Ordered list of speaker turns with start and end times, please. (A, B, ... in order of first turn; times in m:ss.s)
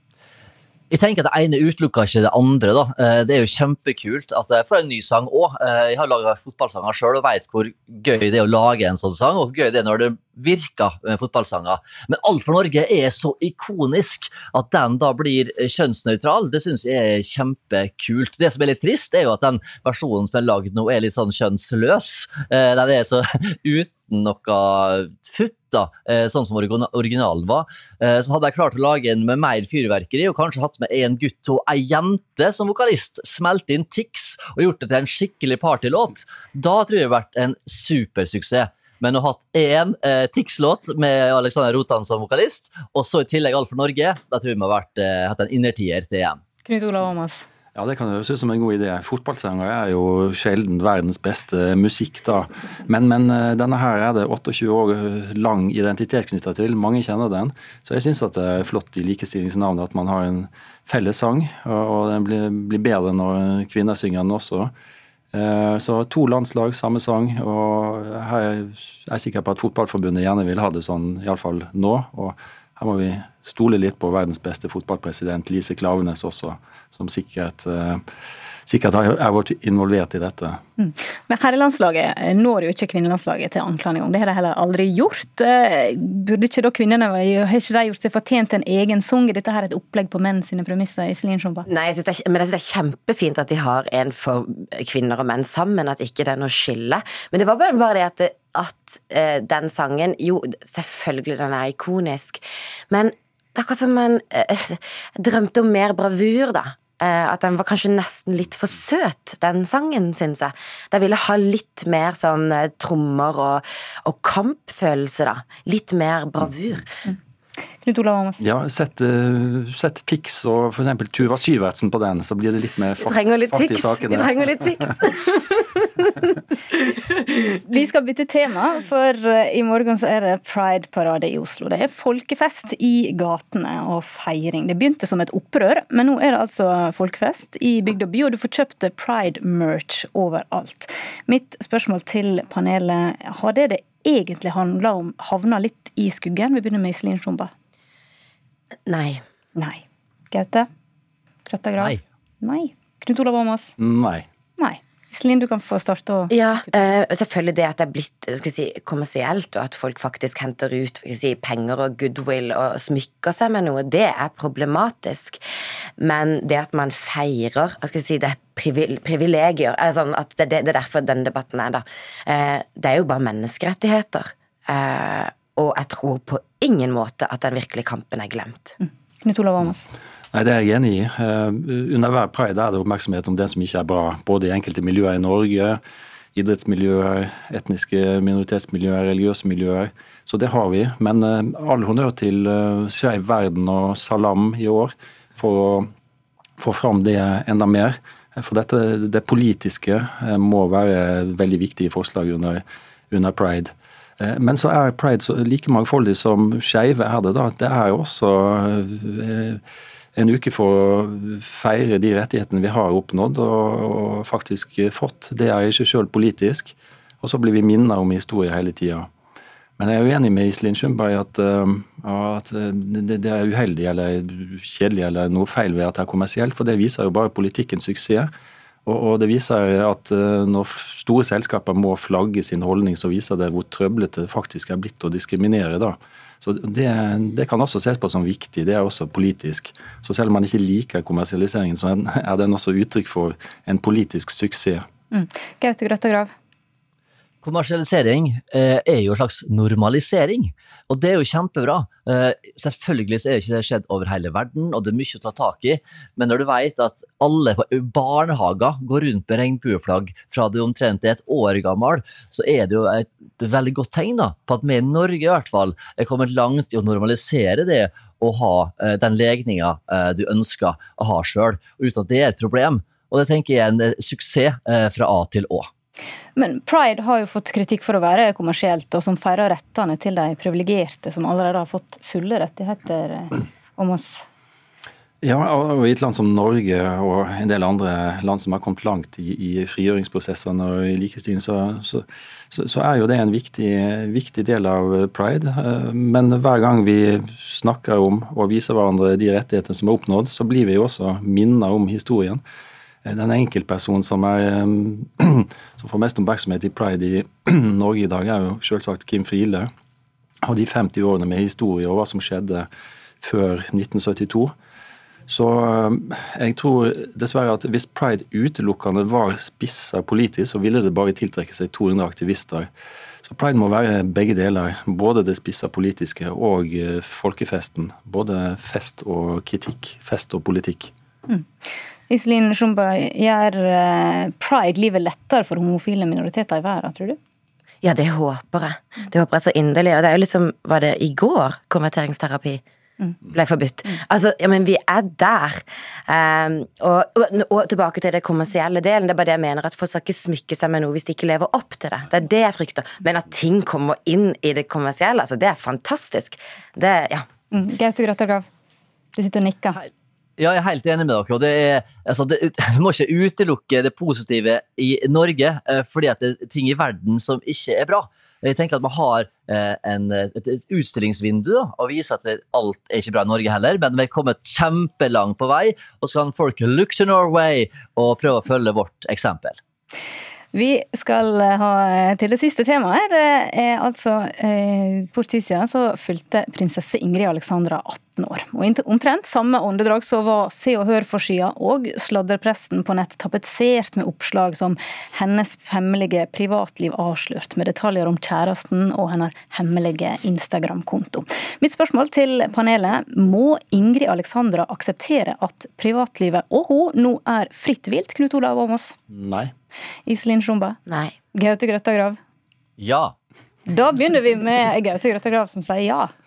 0:00.9-0:46.4 A
0:46.6-0:47.4 B
0:47.8-1:04.7 C
1:05.3-1:18.0 C
1:18.7-1:20.6 C
1:20.8-1:31.7 B
1:31.7-1:57.0 D
1:57.8-1:58.4 B
1:58.4-2:04.4 C
2:03.0-2:06.2 D
2:06.9-2:07.2 D
2:07.6-2:27.5 B
2:28.9-2:29.2 D
2:29.6-2:30.7 B
2:31.5-2:33.7 B
2:33.8-2:34.3 C
2:34.6-2:36.8 B
2:36.3-2:45.4 D
2:46.0-2:58.8 D
2:58.8-2:59.9 B
3:00.3-3:05.8 C
3:06.4-3:15.9 C
3:16.6-3:29.6 C
3:30.2-3:39.1 C
3:39.8-3:48.3 C
3:48.9-4:04.9 C
4:05.1-4:06.3 B
4:07.4-4:35.7 A
4:36.4-4:44.3 B
4:45.2-5:02.4 C
5:03.0-5:09.7 C
5:10.4-5:12.7 C
5:13.2-5:14.5 C
5:15.3-5:22.7 C
5:23.2-5:30.9 C
5:32.1-5:37.2 B
5:37.8-5:42.6 D
5:43.3-5:57.3 D
5:57.5-5:58.5 B
5:59.1-5:59.8 B
5:59.8-6:19.6 A
6:20.5-6:49.0 B
6:49.1-6:49.5 C
6:50.1-6:50.8 B
6:50.9-6:51.1 D
6:51.3-6:52.2 B
6:52.8-6:53.1 A
6:53.7-6:56.1 B